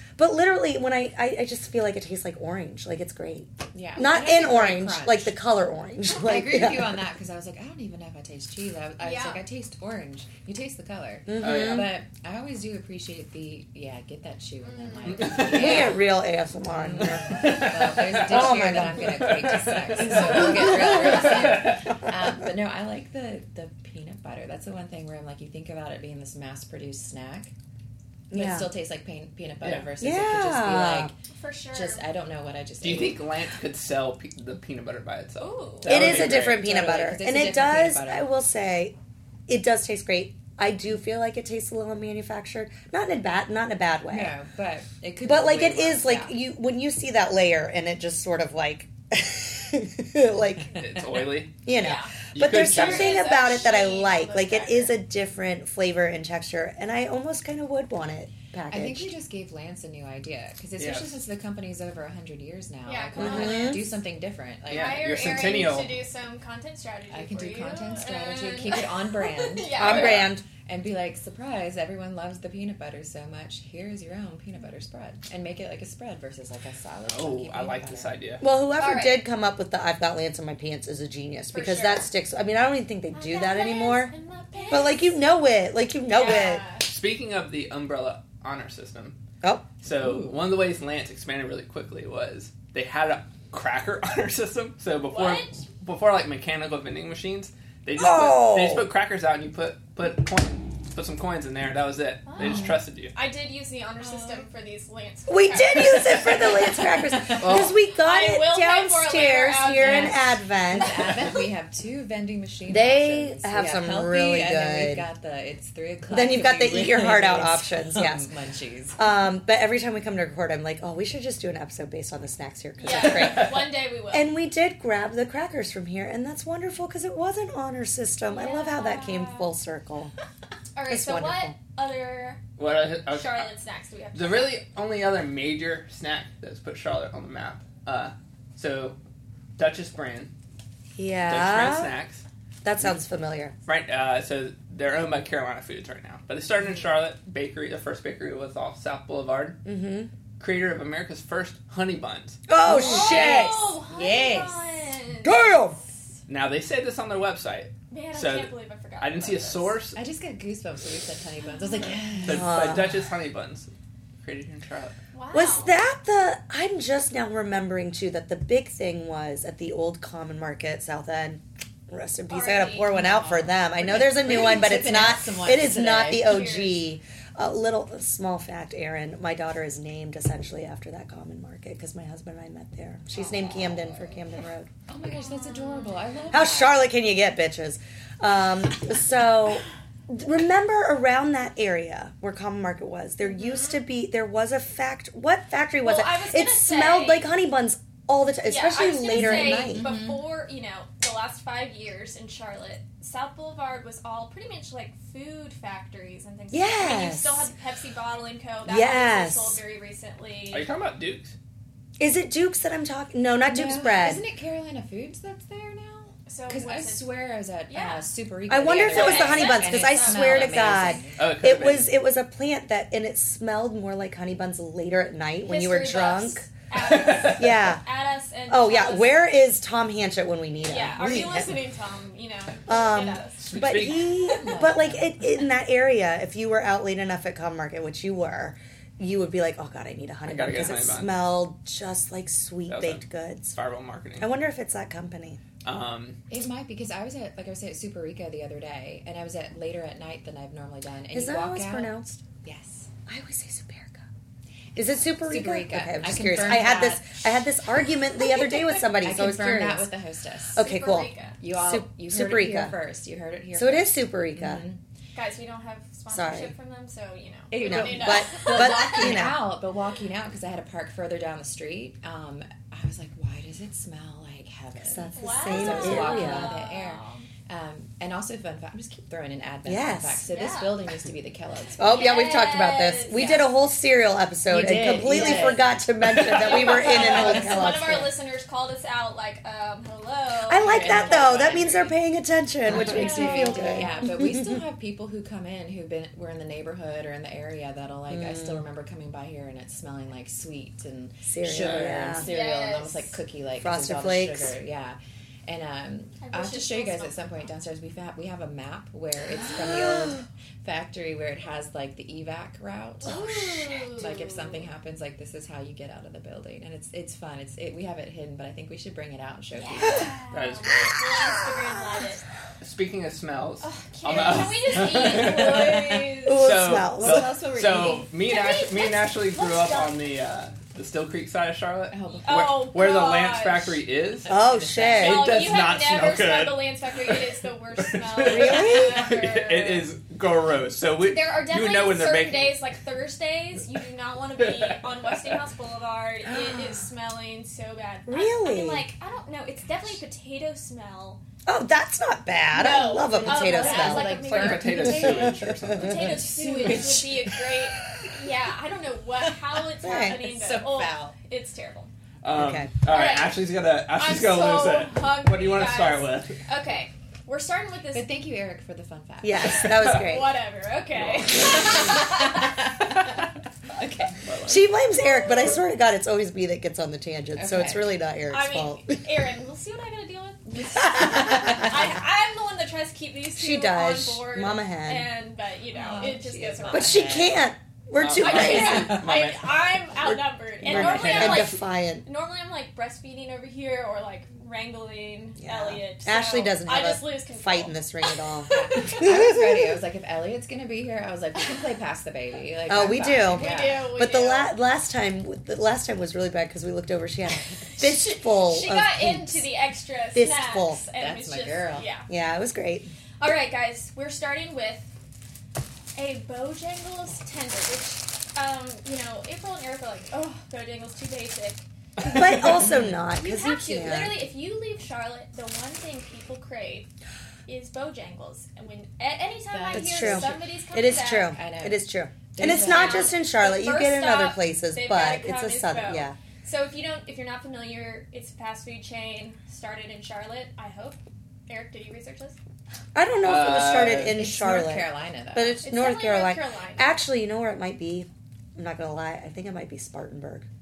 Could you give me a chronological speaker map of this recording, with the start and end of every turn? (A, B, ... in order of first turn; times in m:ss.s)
0:00.2-0:07.0 A
0:03.7-0:05.3 B
0:06.1-0:16.0 B
0:09.0-0:09.4 C
0:11.3-0:11.9 A
0:11.4-0:11.9 D
0:14.6-0:15.4 C
0:15.2-0:15.8 D
0:15.4-0:17.5 A
0:16.7-0:27.5 B
0:17.4-0:21.8 D
0:18.2-0:19.1 A
0:20.1-0:21.1 A
0:28.3-0:28.7 A
0:28.3-0:31.1 B
0:29.6-0:29.9 D
0:30.0-0:31.1 A
0:31.3-0:32.0 C
0:31.7-0:33.2 B
0:32.8-0:36.6 D
0:35.4-0:36.1 C
0:35.8-0:38.9 A
0:36.0-0:38.3 B
0:39.5-0:44.3 A
0:44.1-0:46.4 B
0:45.2-0:50.8 A
0:50.7-0:51.6 D
0:51.6-0:59.1 A
0:51.7-0:54.9 C
0:52.3-0:53.2 D
0:58.7-1:05.3 B
1:00.8-1:01.2 D
1:02.8-1:03.8 C
1:03.2-1:03.9 A
1:04.7-1:06.0 D
1:04.7-1:10.3 C
1:07.1-1:09.8 B
1:09.8-1:10.4 A
1:09.8-1:10.2 D
1:10.6-1:18.2 B
1:17.1-1:18.4 D
1:18.4-1:24.1 A
1:18.8-1:19.2 C
1:21.5-1:22.1 C
1:23.1-1:25.2 C
1:24.7-1:26.6 A
1:26.1-1:26.9 C
1:26.8-1:29.2 D
1:29.4-1:29.7 A
1:29.8-1:43.1 D
1:30.0-1:30.3 B
1:35.1-1:35.6 C
1:38.0-1:38.9 A
1:42.2-1:46.7 C
1:42.4-1:42.8 B
1:44.0-1:44.4 B
1:45.3-1:51.0 A
1:47.1-1:47.4 B
1:47.4-1:47.8 D
1:47.9-1:50.3 C
1:49.8-1:59.0 B
1:52.7-1:55.0 A
1:56.1-1:58.2 A
1:59.0-2:10.1 A
2:02.8-2:04.3 C
2:02.9-2:03.4 D
2:08.3-2:09.5 C
2:10.7-2:12.4 C
2:10.9-2:11.5 A
2:12.6-2:13.5 D
2:13.1-2:14.6 C
2:14.1-2:19.0 D
2:19.6-2:20.3 D
2:21.0-2:21.9 A
2:21.3-2:22.2 D
2:22.6-2:23.5 A
2:23.6-2:29.6 D
2:29.6-2:30.1 A
2:30.4-2:32.4 D
2:32.5-2:33.7 A
2:32.6-2:34.6 B
2:32.7-2:35.4 C
2:35.2-2:35.8 A
2:36.3-2:40.0 D
2:37.9-2:39.8 C
2:39.9-2:42.6 B
2:42.2-2:43.7 D
2:42.3-2:42.9 A
2:44.2-2:45.0 D
2:45.1-2:45.7 C
2:45.3-3:04.7 A
2:52.3-2:52.9 C
2:52.9-2:56.4 B
2:56.2-2:56.8 C
3:04.9-3:06.8 B
3:05.2-3:06.0 C
3:06.3-3:19.9 A
3:13.2-3:13.8 C
3:15.8-3:17.3 C
3:18.5-3:30.7 C
3:19.1-3:20.2 B
3:26.5-3:27.5 A
3:28.6-3:29.6 A
3:30.5-3:31.3 D
3:32.0-3:34.2 A
3:33.4-3:41.2 B
3:36.3-3:37.1 C
3:37.7-3:38.0 C
3:38.5-3:46.5 A
3:38.8-3:41.0 C
3:41.2-3:41.9 D
3:45.4-3:49.3 C
3:46.8-3:47.4 D
3:47.1-3:47.8 A
3:48.5-3:51.6 A
3:50.6-3:53.5 C
3:52.7-4:03.6 A
3:53.4-3:54.1 D
3:54.2-3:55.2 B
4:00.2-4:01.2 D
4:02.7-4:04.3 D
4:04.2-4:05.4 A
4:05.6-4:06.2 D
4:06.3-4:12.9 B
4:11.1-4:12.2 A
4:13.1-4:14.0 A
4:14.8-4:19.9 A
4:14.9-4:17.1 B
4:18.2-4:18.8 C
4:19.0-4:20.6 B
4:20.5-4:22.7 A
4:20.6-4:21.4 C
4:21.4-4:24.8 B
4:23.5-4:24.6 A
4:25.1-4:29.2 C
4:26.1-4:26.5 A
4:27.5-4:42.0 B
4:27.6-4:29.4 A
4:34.9-4:36.6 A
4:35.2-4:37.3 C
4:39.6-4:40.2 A
4:40.3-4:40.8 C
4:41.8-4:48.1 A
4:41.8-4:43.3 C
4:43.1-4:43.5 B
4:44.5-4:45.7 B
4:45.2-4:45.4 C
4:46.2-4:52.0 C
4:46.2-4:46.6 D
4:46.7-4:47.8 B
4:50.5-4:54.6 A
4:50.6-4:51.6 B
4:52.6-5:13.2 B
4:52.8-4:54.0 C
4:58.1-4:58.6 A
5:01.2-5:02.3 A
5:02.2-5:03.1 C
5:03.6-5:04.5 A
5:06.2-5:07.4 C
5:09.5-5:10.2 A
5:13.0-5:13.9 A
5:13.0-5:14.6 C
5:14.0-5:20.2 B
5:19.5-5:22.2 C
5:20.3-5:21.0 D
5:22.6-5:34.3 D
5:23.6-5:26.4 C
5:24.1-5:24.5 B
5:26.2-5:27.3 A
5:27.0-5:28.1 B
5:28.2-5:30.0 C
5:31.9-5:32.4 B
5:32.2-5:33.8 C
5:34.3-5:35.0 B
5:34.3-5:35.3 A
5:34.8-5:39.9 C
5:34.9-5:37.2 D
5:37.8-5:42.6 D
5:38.2-5:39.1 A
5:41.0-5:51.2 C
5:44.4-5:45.4 D
5:48.1-5:48.8 A
5:51.4-5:54.1 A
5:52.5-6:01.9 C
5:53.0-5:55.4 B
5:53.9-5:56.3 D
5:55.4-5:55.8 A
5:56.2-5:57.2 B
5:59.6-6:01.2 B
5:59.8-6:00.2 A
6:02.2-6:06.4 D
6:02.3-6:02.7 A
6:02.9-6:03.4 C
6:04.0-6:08.1 C
6:07.9-6:09.8 B
6:09.2-6:10.3 A
6:09.8-6:12.6 C
6:10.9-6:12.0 D
6:11.4-6:14.2 B
6:14.2-6:14.7 D
6:14.4-6:19.0 A
6:14.9-6:15.6 C
6:17.4-6:17.9 B
6:18.3-6:27.1 C
6:21.1-6:21.6 B
6:23.4-6:25.1 A
6:25.7-6:27.4 B
6:26.7-6:29.0 A
6:28.0-6:29.7 D
6:28.2-6:39.1 C
6:30.6-6:31.6 D
6:30.6-6:32.0 A
6:35.4-6:39.5 A
6:38.5-6:43.8 B
6:42.7-6:49.4 A
6:43.2-6:44.5 C
6:47.8-6:52.1 C
6:50.1-6:50.8 A
6:50.9-6:51.9 B
6:52.1-6:52.9 A
6:53.2-6:54.9 C
6:55.9-7:01.6 C
7:02.0-7:02.4 D
7:02.0-7:04.2 A
7:03.1-7:06.9 C
7:07.5-7:11.4 C
7:09.5-7:10.4 B
7:09.7-7:16.1 A
7:11.3-7:13.1 B
7:12.4-7:22.4 C
7:22.9-7:30.4 A
7:23.2-7:24.2 D
7:24.1-7:25.6 B
7:25.6-7:27.0 C